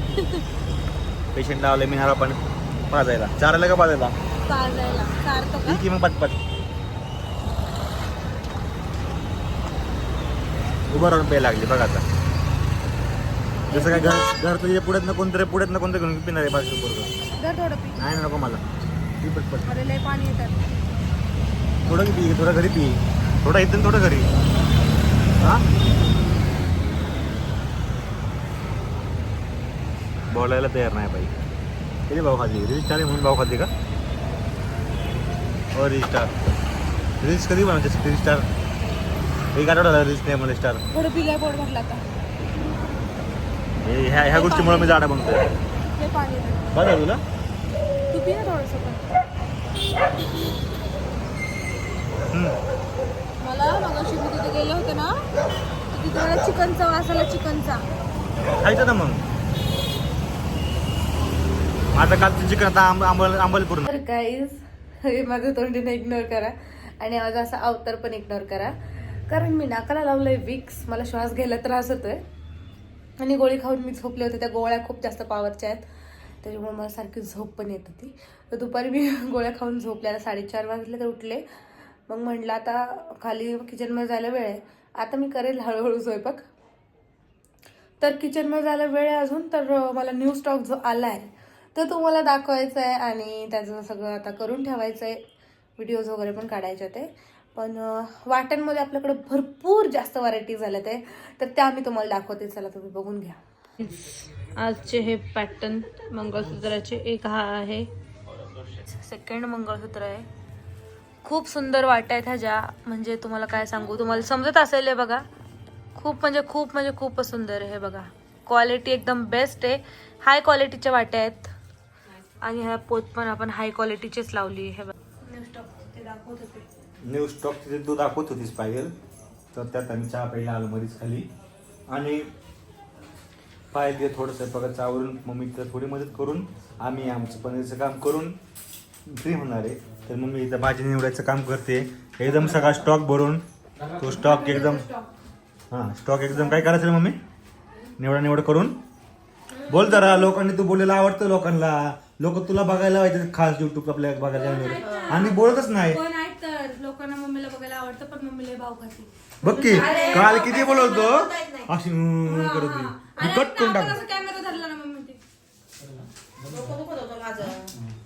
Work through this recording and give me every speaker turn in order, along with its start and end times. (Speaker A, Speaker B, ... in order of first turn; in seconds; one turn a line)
Speaker A: 0.2-0.4
Speaker B: 1.3-4.1
Speaker A: 4.5-5.8
Speaker B: 5.6-6.4
Speaker B: 10.9-12.0
Speaker A: 13.7-14.3
Speaker B: 13.7-17.1
Speaker A: 17.4-18.0
Speaker B: 17.9-18.6
Speaker B: 19.2-19.7
Speaker A: 19.6-20.7
Speaker B: 21.9-24.3
Speaker B: 25.4-25.6
Speaker B: 30.3-31.3
Speaker B: 32.1-33.7
Speaker B: 35.7-36.3
Speaker B: 37.2-38.5
Speaker B: 39.5-40.8
Speaker A: 40.9-42.0
Speaker B: 43.8-45.5
Speaker A: 44.3-45.0
Speaker A: 45.9-46.7
Speaker B: 46.7-47.2
Speaker A: 48.1-49.1
Speaker B: 52.3-52.6
Speaker A: 53.4-55.2
Speaker A: 55.9-57.8
Speaker B: 58.5-59.2
Speaker B: 61.9-63.9
Speaker A: 63.9-68.7
Speaker A: 69.3-72.2
Speaker A: 73.2-75.8
Speaker A: 76.4-81.4
Speaker A: 82.1-86.4
Speaker A: 88.0-95.2
Speaker A: 95.8-104.0
Speaker A: 104.5-107.9
Speaker A: 108.8-110.3
Speaker A: 111.2-115.2
Speaker A: 115.9-121.5
Speaker A: 122.4-126.6
Speaker B: 127.0-128.9
Speaker B: 129.5-131.3
Speaker B: 131.9-132.3
Speaker B: 133.7-138.3
Speaker B: 139.1-143.4
Speaker B: 144.0-144.8
Speaker A: 144.1-145.1
Speaker B: 145.7-147.2
Speaker A: 146.3-146.6
Speaker B: 148.0-148.8
Speaker C: 149.5-149.8
Speaker B: 149.7-156.0
Speaker A: 149.7-150.3
Speaker A: 154.3-160.8
Speaker C: 154.7-155.3
Speaker B: 159.4-164.0
Speaker C: 159.7-161.7
Speaker A: 162.2-165.2
Speaker C: 166.5-167.7